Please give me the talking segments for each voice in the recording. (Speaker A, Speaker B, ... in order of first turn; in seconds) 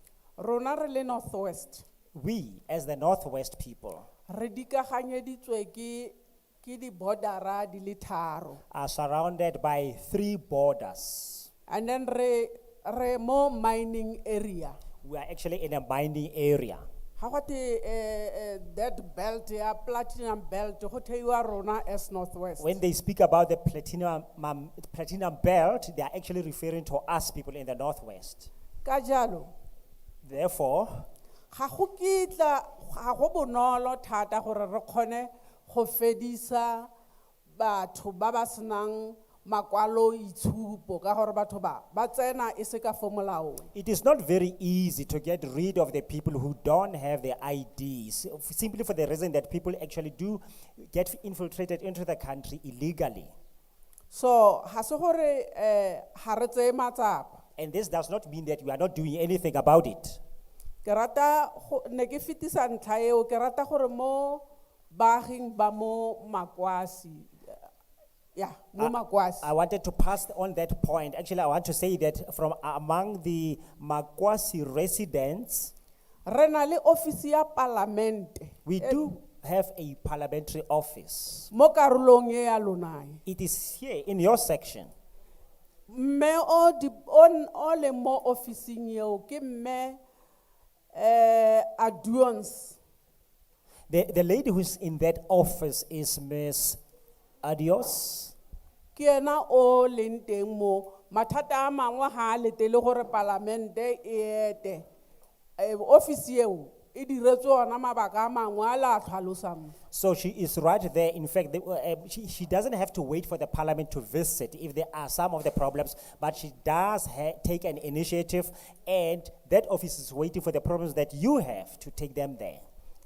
Speaker A: 0.4-1.8, 4.3-8.6, 11.7-14.8, 17.2-22.8, 28.8-29.5, 31.5-36.9, 37.6-43.7, 54.1-57.4, 60.8-67.6, 68.3-69.5, 76.2-79.1, 81.5-83.2, 85.9-90.0, 90.9-92.8, 99.0-104.8, 105.6-109.7
Speaker B: 2.1-4.0, 8.7-11.5, 15.0-16.9, 22.6-28.5, 30.2-31.1, 43.7-53.3, 57.6-60.2, 68.8-75.7, 78.7-81.5, 83.2-84.9, 93.9-96.8, 97.4-98.3, 109.9-122.6